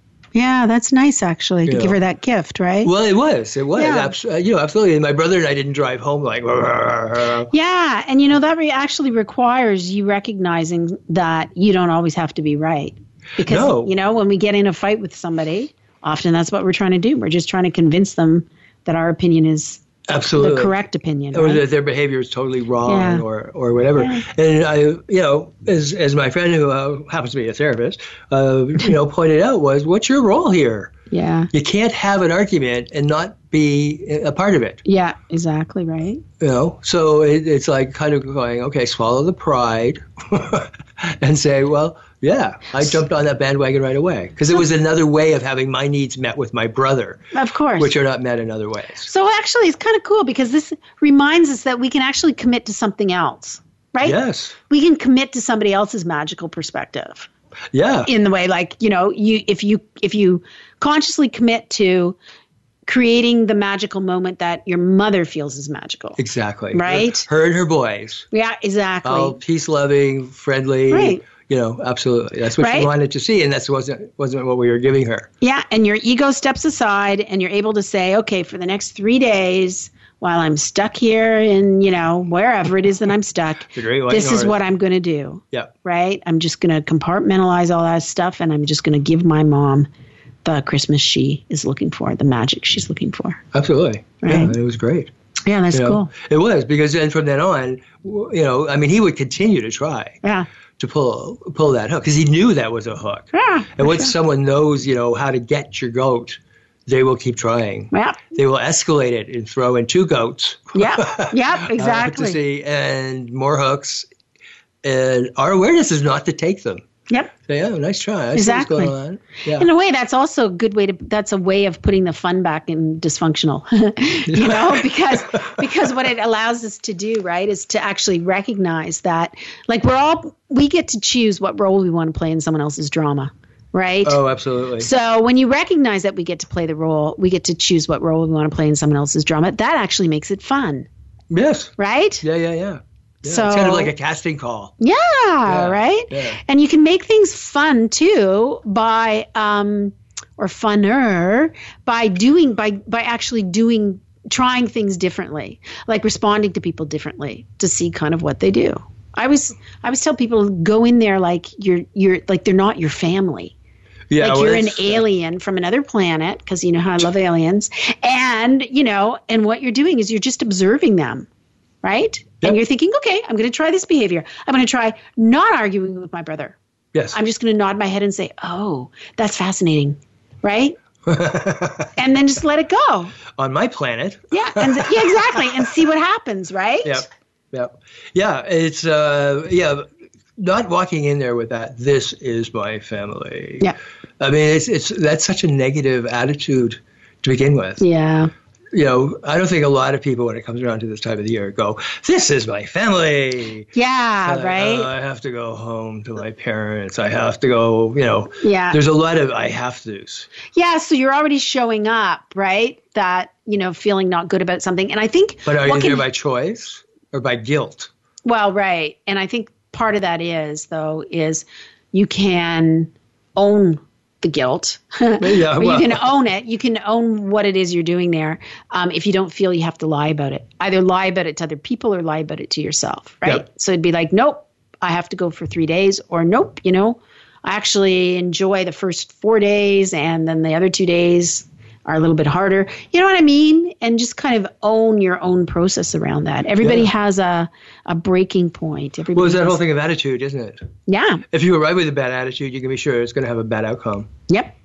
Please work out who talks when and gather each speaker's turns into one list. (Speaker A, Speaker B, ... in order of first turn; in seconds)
Speaker A: 0.3-2.9, 3.8-4.2, 7.5-19.8, 20.4-21.6, 22.9-23.2, 24.0-24.2, 31.1-31.5, 34.9-36.2, 47.3-47.9, 49.0-54.2, 54.7-57.3, 58.1-62.2, 62.9-66.2, 66.7-67.3, 68.3-69.4, 70.9-71.2, 72.6-72.9, 75.4-89.9, 90.4-93.4, 94.2-94.5, 95.5-96.1, 103.3-104.1, 107.9-108.2, 110.8-112.4, 118.3-118.9, 119.5-134.2, 134.8-140.9, 141.8-142.2, 143.2-143.9, 144.8-163.6, 164.2-171.3, 171.8-176.6, 177.1-180.8, 182.0-183.2, 184.3-187.1, 197.8-198.3, 203.7-204.9, 208.4-208.8, 210.5-216.0, 218.2-249.6, 250.9-251.2, 254.3-254.5
Speaker B: 1.7-2.0, 2.8-7.5, 13.4-13.9, 20.1-20.8, 21.3-30.9, 31.5-34.8, 36.4-47.2, 47.8-49.1, 54.0-54.6, 57.7-58.1, 66.2-68.3, 69.0-75.3, 83.7-84.6, 93.5-95.1, 95.7-100.2, 100.8-114.1, 114.8-116.8, 117.5-119.7, 124.3-125.6, 134.0-134.9, 141.3-144.7, 145.5-146.4, 164.1-165.1, 181.1-181.9, 183.4-185.4, 186.8-193.7, 194.2-197.8, 198.7-203.7, 204.2-210.3, 215.4-217.9, 225.2-226.1, 246.6-246.9, 249.1-250.6, 251.3-254.1